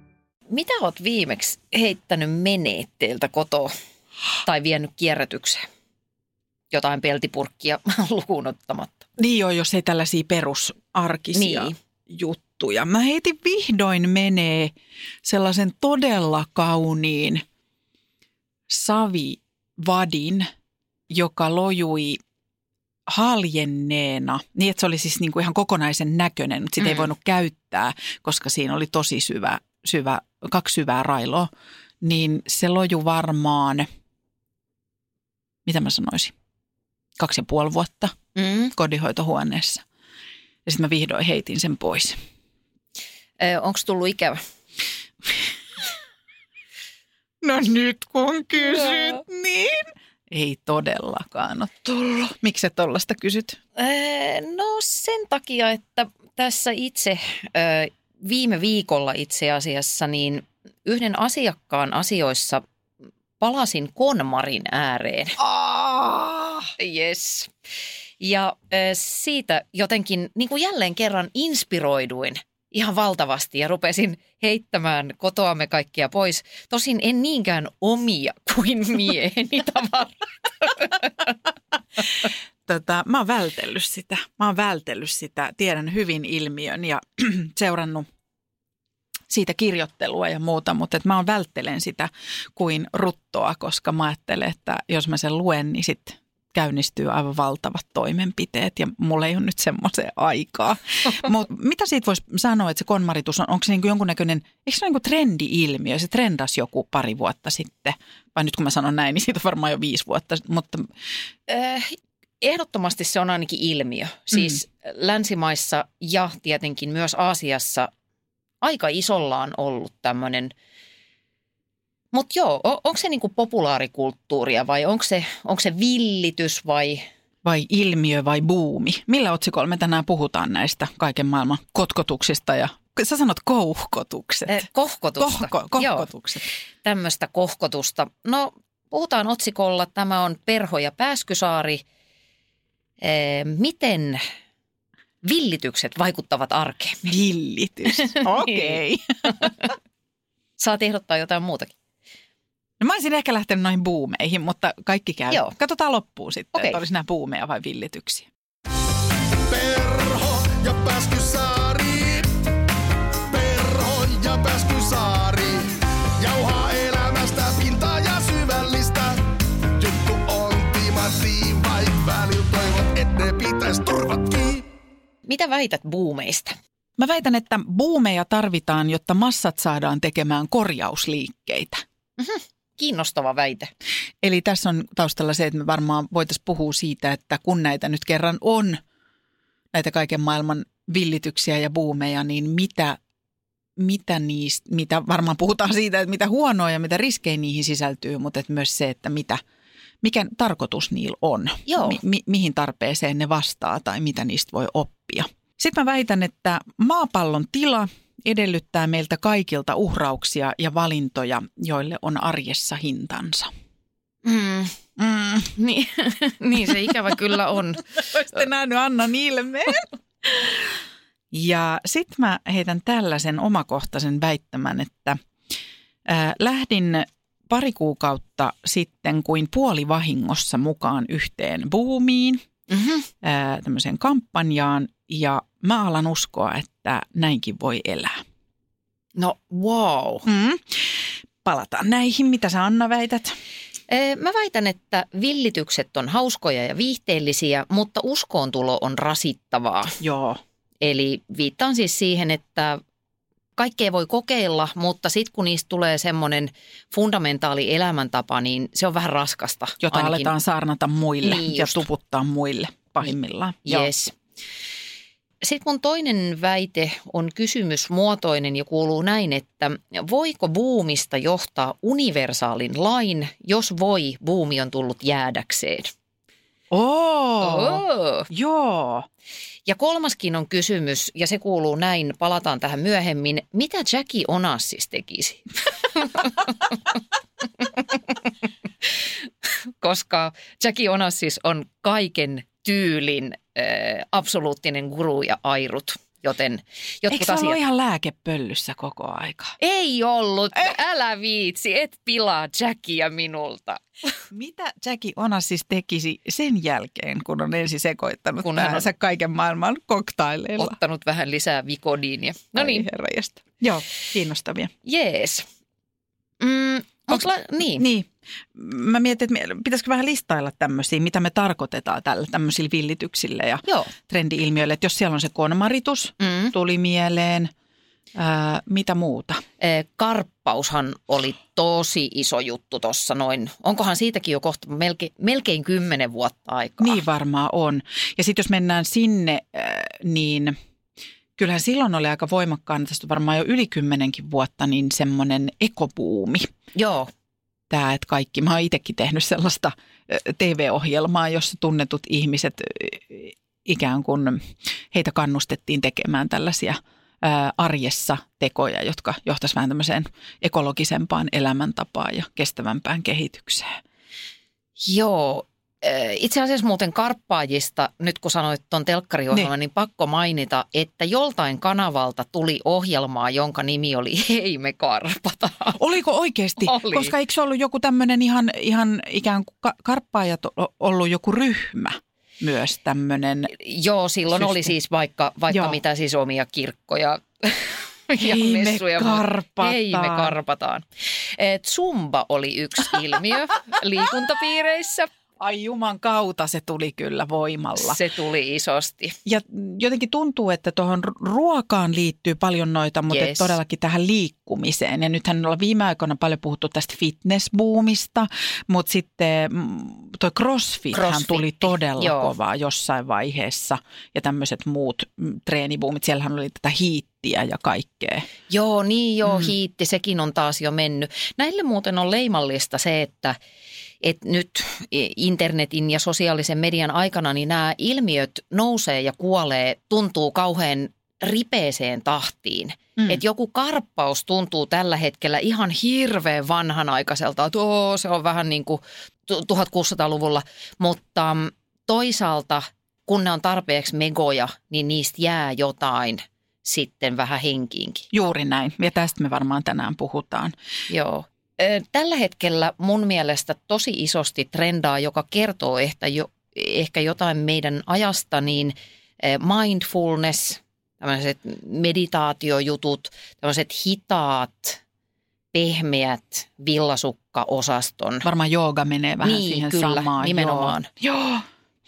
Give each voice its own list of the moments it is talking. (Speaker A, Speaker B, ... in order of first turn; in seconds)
Speaker A: 0.5-3.7, 4.4-5.7, 6.7-9.1, 11.3-11.8, 38.3-38.7, 43.4-44.4, 53.8-62.6, 63.4-65.4, 66.8-67.5, 68.2-81.3, 111.5-117.9, 118.6-120.5, 122.1-127.0, 134.5-136.1, 136.8-141.8, 143.0-144.2, 145.2-147.1, 148.0-148.8, 149.4-149.7, 150.6-151.7, 156.5-156.8, 175.2-176.5, 182.2-183.7, 201.7-202.0, 214.2-214.8, 215.6-217.9, 232.7-233.1, 239.2-240.2, 243.9-250.0, 250.8-252.8, 253.6-260.3, 261.2-261.9, 263.6-264.1, 265.4-275.9, 277.4-278.3, 279.7-286.8, 287.6-288.1, 288.9-297.6, 299.6-303.8, 308.4-308.9, 310.6-312.9, 314.8-315.5, 316.4-317.9, 323.6-323.9, 326.2-326.5, 329.6-337.0, 346.7-347.1, 364.8-375.8, 376.6-377.1, 383.5-395.1, 397.8-399.1, 403.1-403.5, 410.9-412.3, 418.5-423.4, 424.0-448.0, 450.9-464.8, 465.5-468.2, 469.2-470.9
Speaker B: 9.2-17.4, 18.7-20.5, 21.1-22.2, 23.1-31.5, 32.0-33.9, 35.6-36.3, 37.2-38.1, 38.7-39.8, 40.6-42.2, 47.4-53.6, 65.4-66.7, 82.7-88.1, 89.3-110.9, 127.4-134.6, 135.2-136.5, 147.0-149.7, 152.8-158.3, 177.0-181.8, 184.2-188.8, 189.7-193.0, 193.8-199.4, 200.0-213.5, 215.0-215.5, 218.0-220.8, 221.3-225.2, 226.1-232.4, 233.2-238.2, 240.2-243.3, 250.0-250.4, 259.8-263.9, 276.7-279.1, 297.1-299.6, 304.3-310.8, 312.5-314.7, 317.1-327.5, 328.1-329.4, 336.8-340.6, 341.4-346.5, 347.7-363.8, 375.8-383.5, 384.3-384.7, 385.5-385.8, 388.2-390.3, 395.4-398.0, 399.2-418.3, 448.1-450.5, 468.2-471.4
Speaker C: 159.5-162.4, 163.3-174.7